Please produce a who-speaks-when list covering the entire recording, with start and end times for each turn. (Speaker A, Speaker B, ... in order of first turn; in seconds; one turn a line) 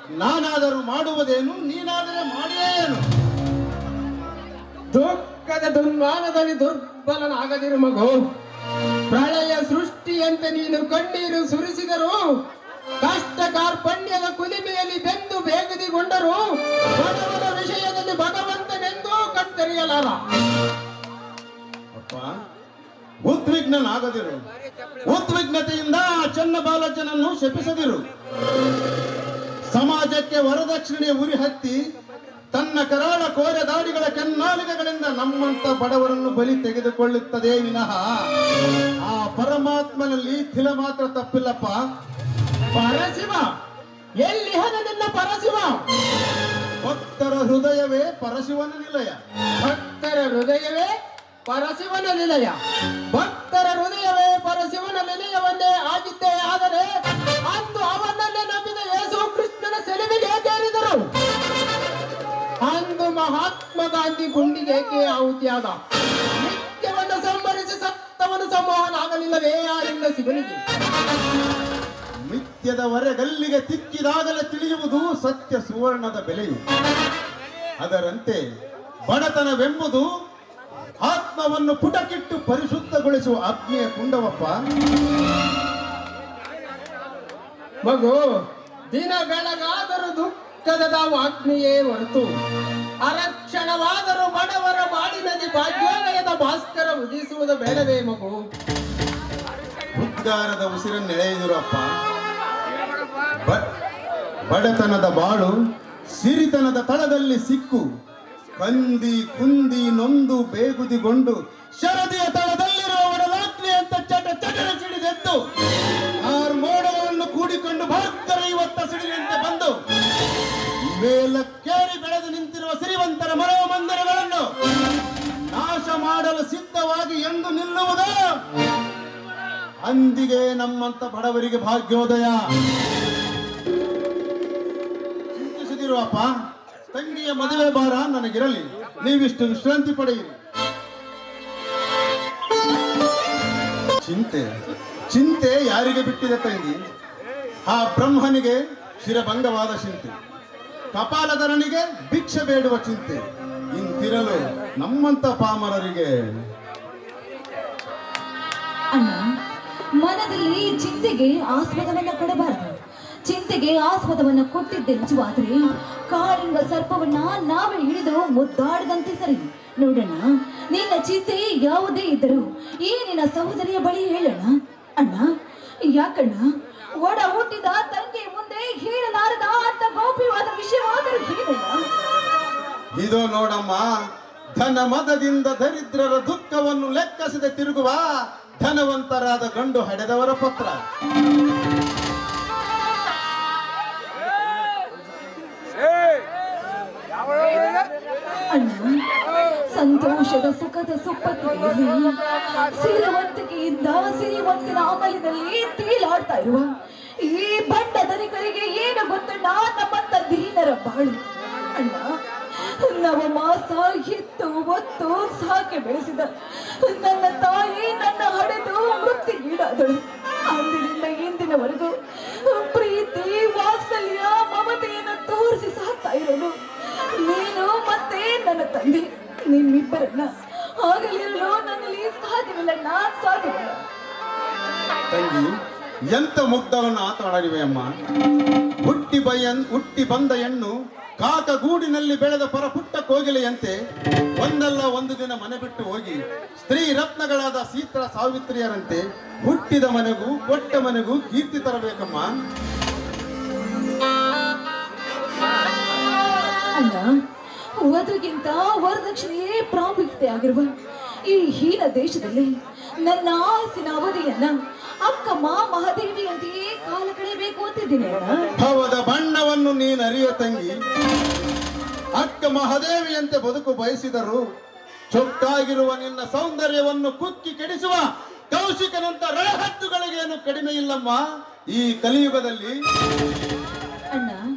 Speaker A: 0.2-3.0
Speaker B: 4.9-8.3
Speaker B: 9.1-12.2
Speaker B: 13.0-20.2
Speaker A: 21.9-22.3
Speaker A: 23.2-24.4
Speaker A: 25.0-28.1
Speaker A: 29.7-31.8
Speaker A: 32.5-38.2
Speaker A: 39.0-41.8
Speaker B: 42.7-43.5
Speaker B: 44.2-45.8
Speaker A: 46.8-49.2
Speaker B: 49.6-50.9
Speaker B: 51.5-52.5
Speaker B: 53.1-56.9
Speaker B: 57.5-61.1
Speaker B: 62.6-65.8
Speaker B: 66.4-70.6
Speaker A: 72.3-76.6
Speaker A: 77.8-78.4
Speaker A: 79.1-80.1
Speaker A: 81.0-84.5
Speaker B: 87.8-88.2
Speaker B: 88.9-92.3
Speaker B: 93.0-98.4
Speaker A: 99.9-101.9
Speaker A: 103.4-103.7
Speaker A: 104.5-105.5
Speaker A: 106.1-107.9
Speaker A: 108.6-115.4
Speaker A: 116.2-119.8
Speaker A: 120.8-124.5
Speaker A: 125.5-128.3
Speaker A: 129.8-132.4
Speaker A: 135.3-136.3
Speaker A: 136.9-140.3
Speaker A: 144.0-144.5
Speaker A: 145.1-146.8
Speaker A: 147.7-150.1
Speaker A: 150.9-153.2
Speaker A: 153.7-156.1
Speaker C: 158.9-159.2
Speaker C: 160.0-175.3
Speaker C: 175.8-176.5
Speaker C: 177.0-181.8
Speaker A: 182.9-183.9
Speaker A: 184.5-188.1
Speaker A: 188.6-190.8
Speaker C: 198.5-199.0
Speaker C: 199.7-206.7
Speaker C: 207.2-211.2
Speaker C: 211.7-233.8
Speaker A: 235.1-235.6
Speaker A: 236.1-237.9
Speaker A: 238.8-243.8
Speaker A: 244.4-252.3
Speaker C: 256.8-257.1
Speaker C: 257.8-260.7
Speaker C: 261.2-262.5
Speaker C: 263.0-268.5
Speaker A: 268.6-270.8
Speaker A: 272.1-274.4
Speaker A: 275.1-282.8
Speaker C: 284.1-284.4